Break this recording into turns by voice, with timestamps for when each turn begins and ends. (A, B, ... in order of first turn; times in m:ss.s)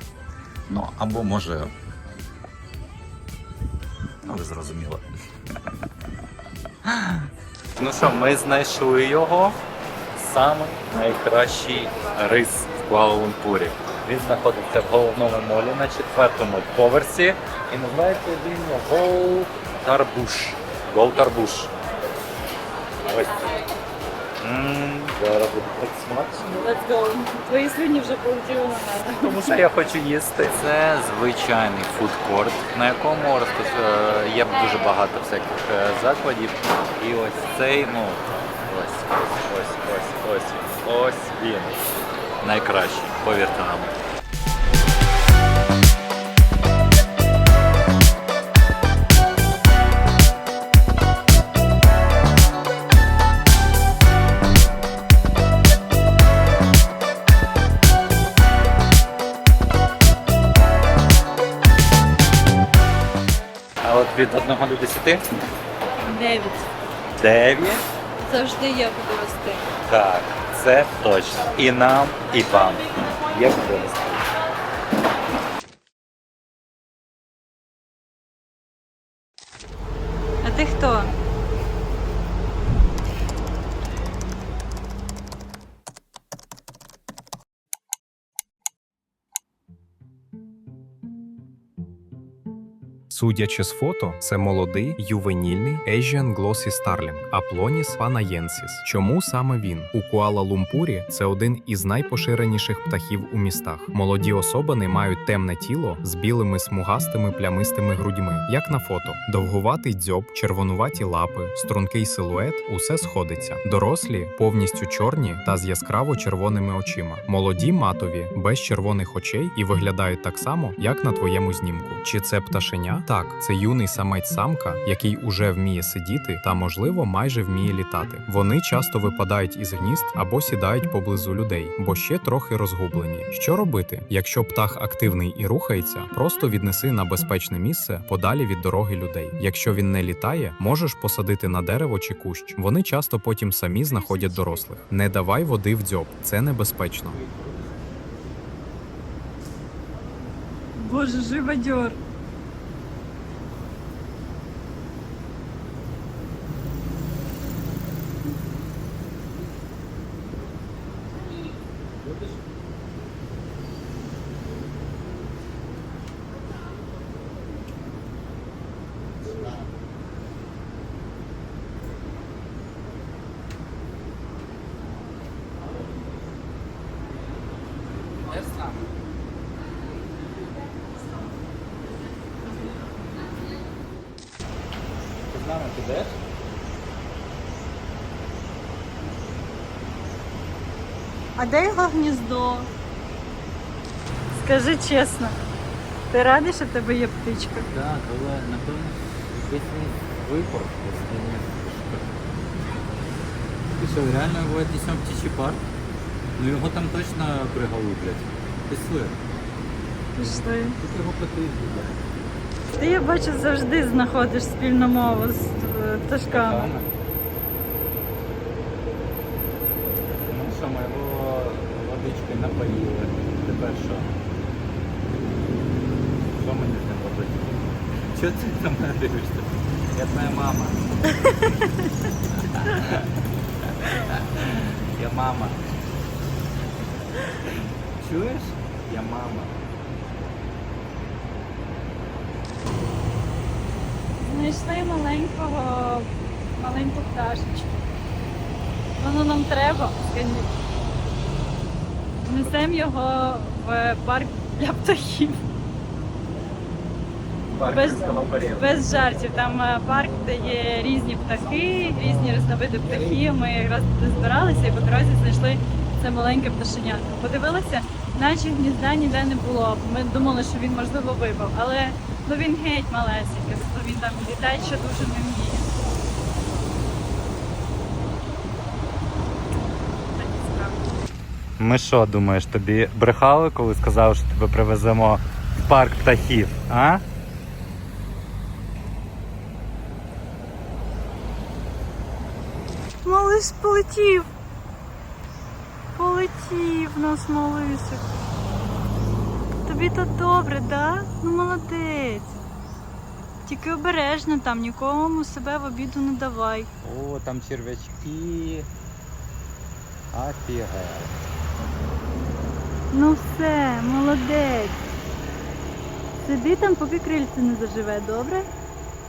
0:00.7-0:01.7 A
0:04.2-0:05.0 A
0:06.8-0:09.6 A
0:10.2-0:21.7 A
0:23.0-0:23.6 A
0:24.4-0:26.7 A
0:26.6-0:29.6 B
0:29.2-0:43.9 A
1:03.8-1:05.2 A
1:06.0-1:06.7 B
1:07.2-1:07.9 A
1:08.2-1:09.7 B
1:09.8-1:14.3 A
1:20.4-1:21.1 B
1:33.1-2:27.2 C
2:30.8-2:32.0 B
2:58.3-2:58.9 A
3:05.3-3:06.2 A
3:11.4-3:12.7 B
3:14.3-3:15.4 B
3:16.1-3:17.7 B
3:17.7-3:22.1 A
3:23.8-3:25.6 A
3:26.4-3:29.2 A
3:30.2-3:30.8 B
3:30.8-3:32.0 A
3:32.7-3:36.7 B
3:36.3-3:37.0 A
3:40.3-3:44.2 A
3:46.3-3:50.8 A
3:52.3-3:53.1 A
3:53.8-3:55.6 A
3:57.4-3:59.5 A
4:04.2-4:07.9 B
4:09.0-4:10.5 B
4:12.3-4:15.4 B
4:17.6-4:35.7 B
4:40.2-4:40.9 B
4:41.6-4:47.0 A
4:53.0-4:54.3 B
4:56.0-4:58.0 B
4:59.7-5:02.4 B
5:03.5-5:06.7 B
5:06.8-5:08.7 A
5:10.1-5:11.1 A
5:12.9-5:14.8 B
5:16.2-5:18.5 B